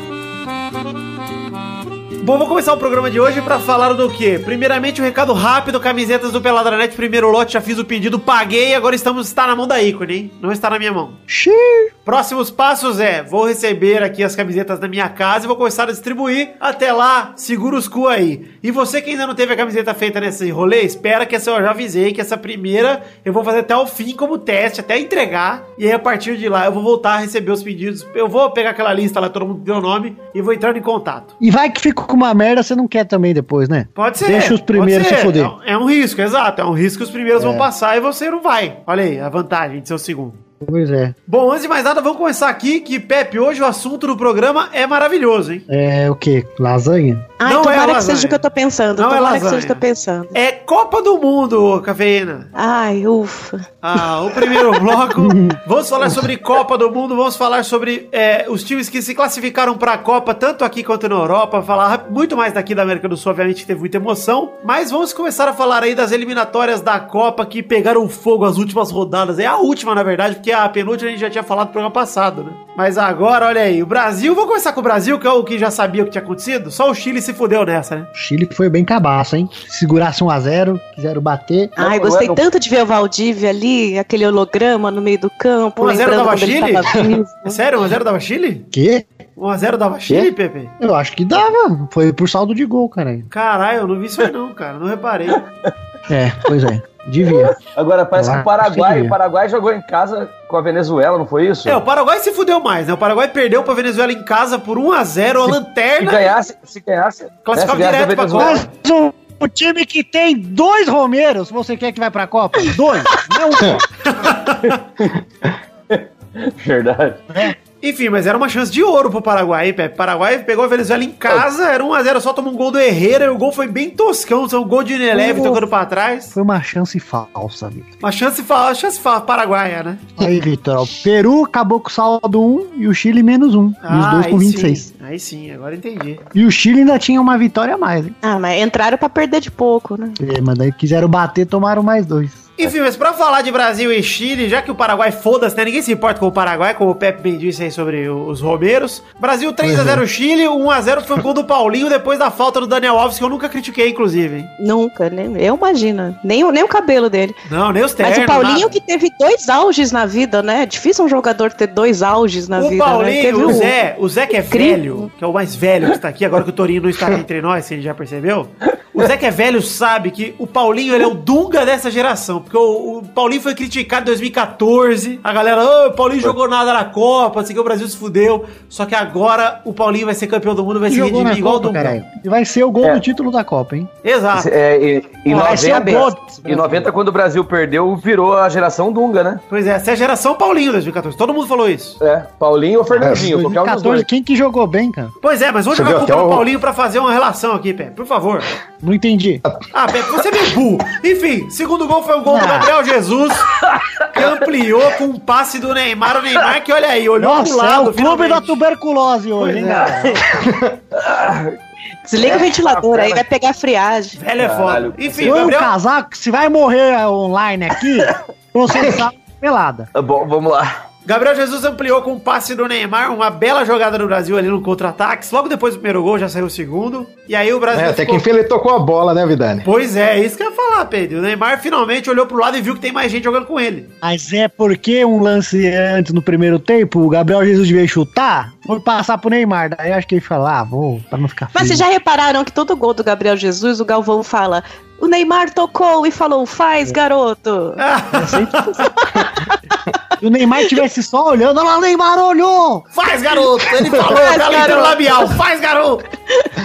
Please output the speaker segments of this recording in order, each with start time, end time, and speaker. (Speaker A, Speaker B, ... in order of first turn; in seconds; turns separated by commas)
Speaker A: 2.2-11.2, Speaker B: 11.3-11.9, Speaker A: 12.0-31.3, Speaker B: 31.4-35.5, Speaker A: 34.0-40.4, Speaker B: 37.4-37.6, Speaker B: 40.6-41.1, Speaker A: 41.3-45.6, Speaker B: 45.7-47.3, Speaker C: 47.4-50.3, Speaker A: 47.4-48.4, Speaker A: 49.0-49.8, Speaker A: 50.3-52.5, Speaker C: 52.5-53.6, Speaker A: 53.8-78.1, Speaker B: 55.3-55.5, Speaker B: 78.1-81.7, Speaker C: 81.8-87.6, Speaker D: 81.8-82.4, Speaker A: 85.8-88.7, Speaker B: 88.7-89.0, Speaker A: 89.4-90.7, Speaker B: 90.8-93.3, Speaker A: 93.3-95.5, Speaker B: 96.1-97.5, Speaker D: 97.3-101.8, Speaker B: 98.2-99.1, Speaker A: 101.7-106.3, Speaker D: 106.0-108.6, Speaker A: 107.4-108.7, Speaker B: 108.4-113.8, Speaker A: 114.1-114.8, Speaker D: 114.7-115.2, Speaker D: 115.9-117.2, Speaker A: 117.8-126.3, Speaker B: 125.1-125.6, Speaker B: 126.3-127.9, Speaker A: 128.0-130.0, Speaker B: 130.2-134.9, Speaker A: 133.8-136.2, Speaker B: 136.3-138.2, Speaker C: 138.2-140.2, Speaker B: 140.2-142.4, Speaker A: 142.6-154.5, Speaker B: 149.6-150.0, Speaker C: 154.6-157.4, Speaker A: 157.4-158.7, Speaker C: 158.0-163.8, Speaker A: 162.6-182.0, Speaker C: 164.5-165.1, Speaker B: 180.9-183.9, Speaker A: 184.0-184.5, Speaker D: 184.3-189.4, Speaker B: 185.3-186.8, Speaker A: 189.5-192.0, Speaker D: 192.0-194.1, Speaker E: 193.0-193.3, Speaker B: 193.0-195.1, Speaker A: 195.2-198.5, Speaker E: 195.7-196.5, Speaker B: 198.8-199.4, Speaker A: 199.7-203.6, Speaker B: 202.2-202.7, Speaker A: 204.1-208.6, Speaker B: 207.2-210.2, Speaker A: 209.4-210.0, Speaker D: 209.7-211.6, Speaker E: 210.4-210.7, Speaker C: 212.1-214.2, Speaker D: 212.1-213.2, Speaker A: 214.1-215.7, Speaker D: 214.4-215.5, Speaker B: 215.2-219.9, Speaker D: 219.9-220.7, Speaker A: 221.0-228.2, Speaker E: 227.7-229.7, Speaker A: 229.6-233.9, Speaker B: 234.0-241.8, Speaker C: 241.5-247.8, Speaker A: 247.8-248.7, Speaker B: 248.1-248.7, Speaker C: 249.0-249.5, Speaker B: 250.2-252.8, Speaker A: 252.9-256.0, Speaker C: 254.0-255.3